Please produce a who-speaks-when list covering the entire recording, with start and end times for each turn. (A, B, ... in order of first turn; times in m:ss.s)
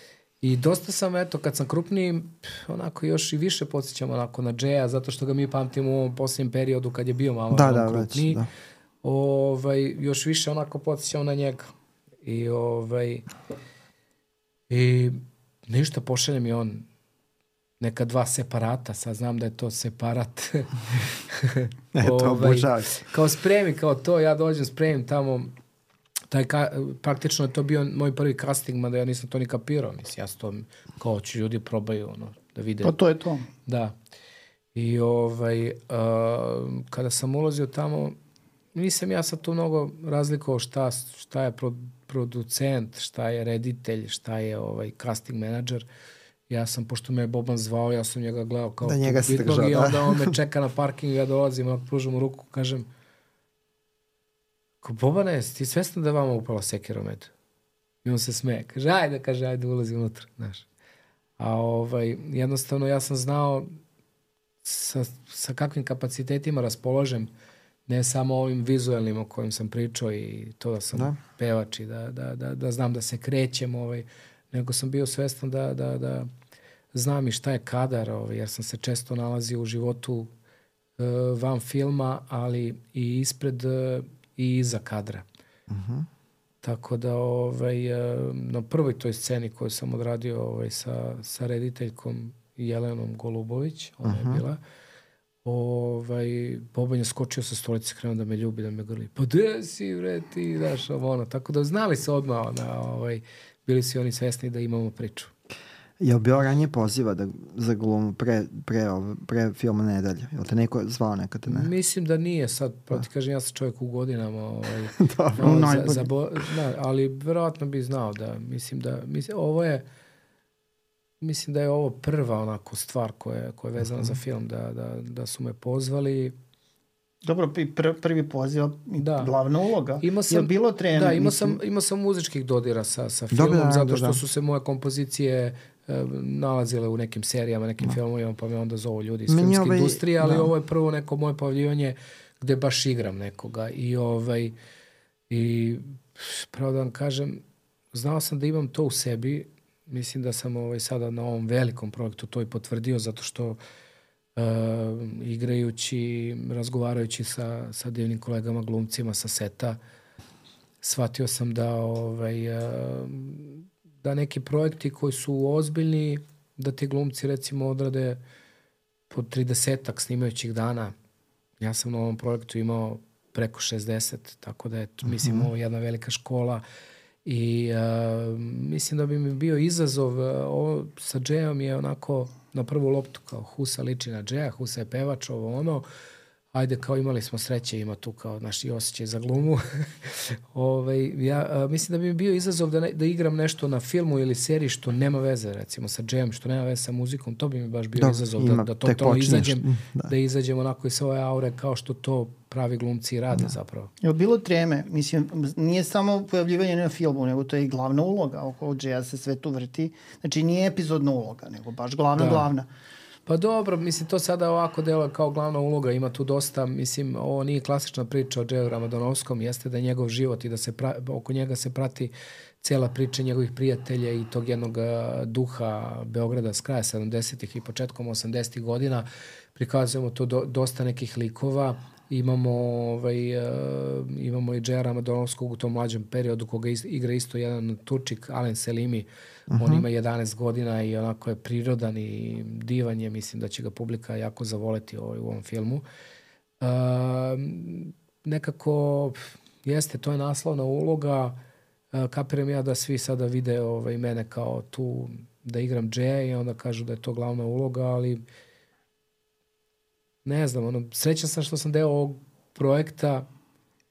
0:00.4-0:08.4 A
0:07.5-0:08.5 B
0:09.0-0:11.7 A
0:12.2-0:13.3 A
0:14.7-0:16.8 A
0:17.8-0:25.5 A
0:21.9-0:22.9 B
0:26.3-0:32.9 A
0:32.8-0:33.5 C
0:33.6-0:33.9 A
0:34.7-0:38.2 A
0:38.7-0:45.8 A
0:46.5-0:52.8 A
0:48.8-0:50.3 B
0:54.8-0:57.3 A
0:58.0-1:00.6 A
1:01.4-1:03.7 A
1:04.6-1:07.3 A
1:07.8-1:16.3 A
1:16.9-1:20.3 A
1:21.0-1:25.2 A
1:25.7-1:26.1 B
1:26.6-1:34.6 A
1:34.0-1:34.4 B
1:35.4-1:45.3 A
1:46.0-1:51.7 B
1:51.5-1:59.8 A
1:55.0-1:55.7 B
1:55.4-1:56.1 C
2:01.2-2:06.4 A
2:07.2-2:11.6 C
2:09.0-2:09.3 A
2:10.0-2:24.5 A
2:13.3-2:14.2 B
2:19.3-2:20.5 B
2:25.3-2:27.4 A
2:27.9-2:33.6 A
2:34.4-2:39.8 A
2:40.8-2:48.2 A
2:49.1-2:50.9 A
2:51.6-2:56.6 A
2:55.1-2:55.5 B
2:57.2-3:05.8 A
3:06.5-3:23.9 A
3:18.0-3:20.1 B
3:24.0-3:32.7 C
3:32.2-3:32.5 A
3:33.2-4:05.8 A
3:59.5-3:59.8 B
4:06.6-4:11.4 A
4:11.9-4:18.2 A
4:20.2-4:23.3 A